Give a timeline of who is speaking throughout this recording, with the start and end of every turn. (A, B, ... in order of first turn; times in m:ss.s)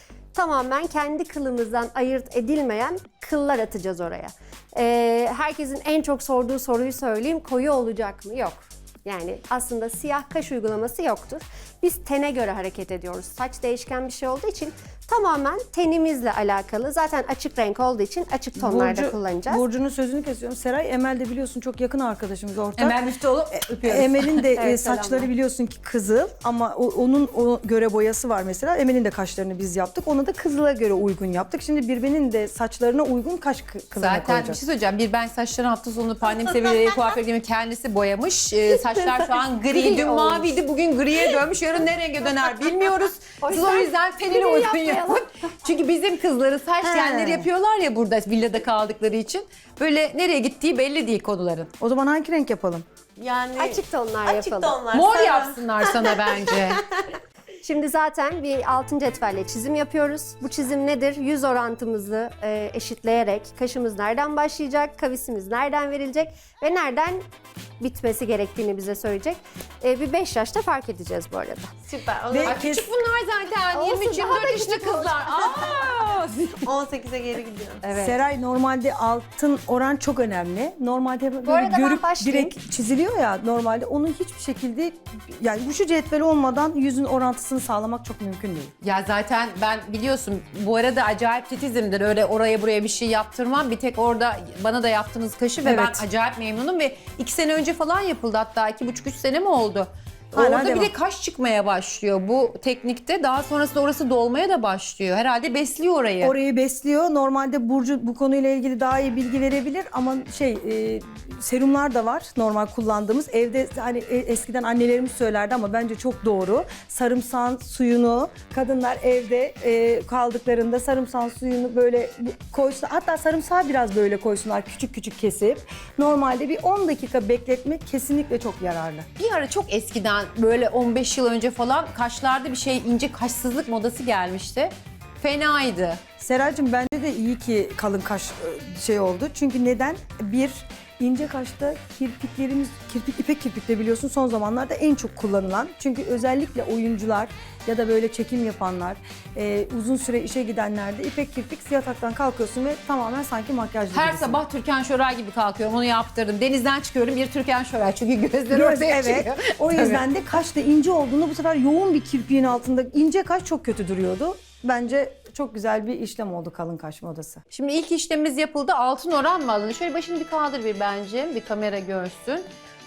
0:00.4-0:19.6 A
0:18.6-0:23.0 B
0:22.8-0:24.5 C
0:23.8-0:34.6 B
0:24.6-0:25.3 A
0:34.0-0:51.7 C
0:36.3-0:37.2 A
0:38.7-0:40.5 A
0:43.4-0:45.2 A
0:46.8-0:47.5 B
0:51.8-0:52.8 B
0:53.2-0:57.2 D
0:53.6-0:54.8 A
0:54.9-0:56.8 C
0:57.6-1:07.2 A
1:07.8-1:11.7 A
1:11.9-1:12.6 D
1:12.3-1:12.9 B
1:12.4-1:16.7 C
1:13.7-1:15.8 A
1:16.6-1:17.9 D
1:17.8-1:18.2 A
1:17.9-1:28.7 B
1:21.4-1:22.5 A
1:28.8-1:46.4 C
1:35.6-1:36.0 B
1:40.3-1:40.9 B
1:46.2-2:09.1 B
2:09.2-2:16.0 C
2:16.2-2:34.4 B
2:33.9-2:40.1 C
2:38.5-2:47.4 B
2:47.5-2:52.5 C